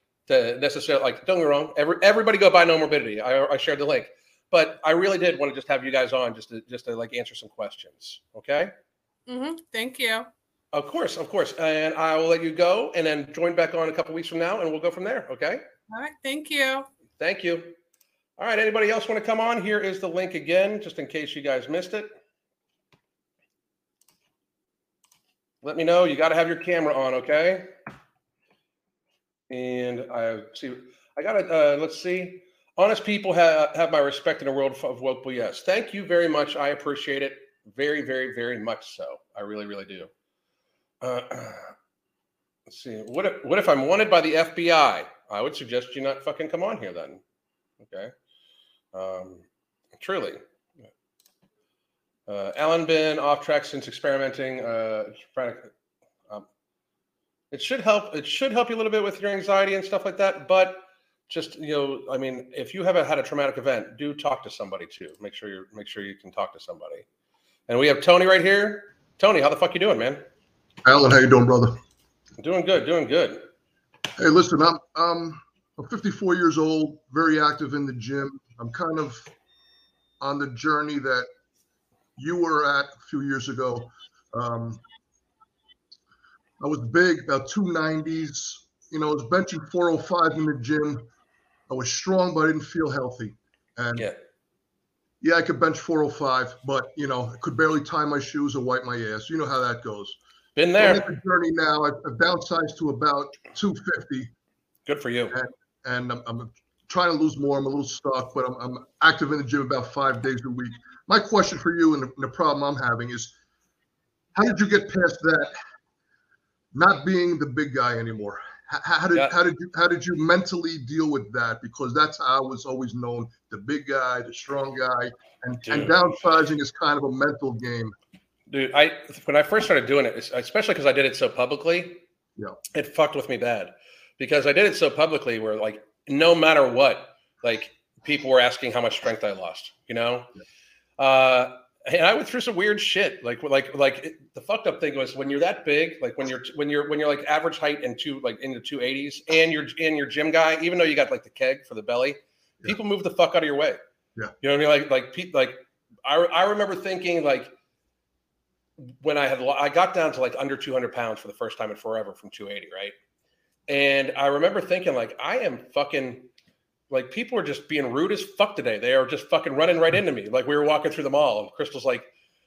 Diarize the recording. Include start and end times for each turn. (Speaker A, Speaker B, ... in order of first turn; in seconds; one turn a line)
Speaker A: 0.3-8.7
Speaker B: 9.3-10.3
Speaker A: 10.7-15.6
Speaker B: 15.9-16.9
Speaker A: 17.2-17.8
Speaker A: 18.4-22.1
Speaker A: 25.6-27.7
Speaker A: 29.5-40.1
Speaker A: 41.0-41.7
Speaker A: 42.7-47.2
Speaker A: 47.8-48.1
Speaker A: 48.9-49.4
Speaker A: 50.0-50.4
Speaker A: 52.3-55.7
Speaker A: 57.5-67.0
Speaker A: 67.7-70.2
Speaker C: 70.8-71.8
Speaker A: 72.4-73.4
Speaker C: 74.2-79.3
Speaker C: 80.2-81.3
Speaker C: 82.2-84.8
Speaker C: 86.6-91.0
Speaker C: 91.7-94.1
Speaker C: 95.2-100.2
Speaker A: 100.5-101.1
Speaker C: 100.8-104.3
Speaker A: 104.9-105.3
Speaker C: 105.3-113.3
Speaker C: 114.3-115.6
Speaker C: 116.7-127.9
Speaker A: 125.7-126.0
Speaker A: 128.5-132.0
Speaker A: 132.7-140.3
Speaker A: 141.0-153.8
Speaker A: 154.4-157.5
Speaker A: 158.8-162.9
Speaker A: 163.7-166.3
Speaker A: 166.9-172.1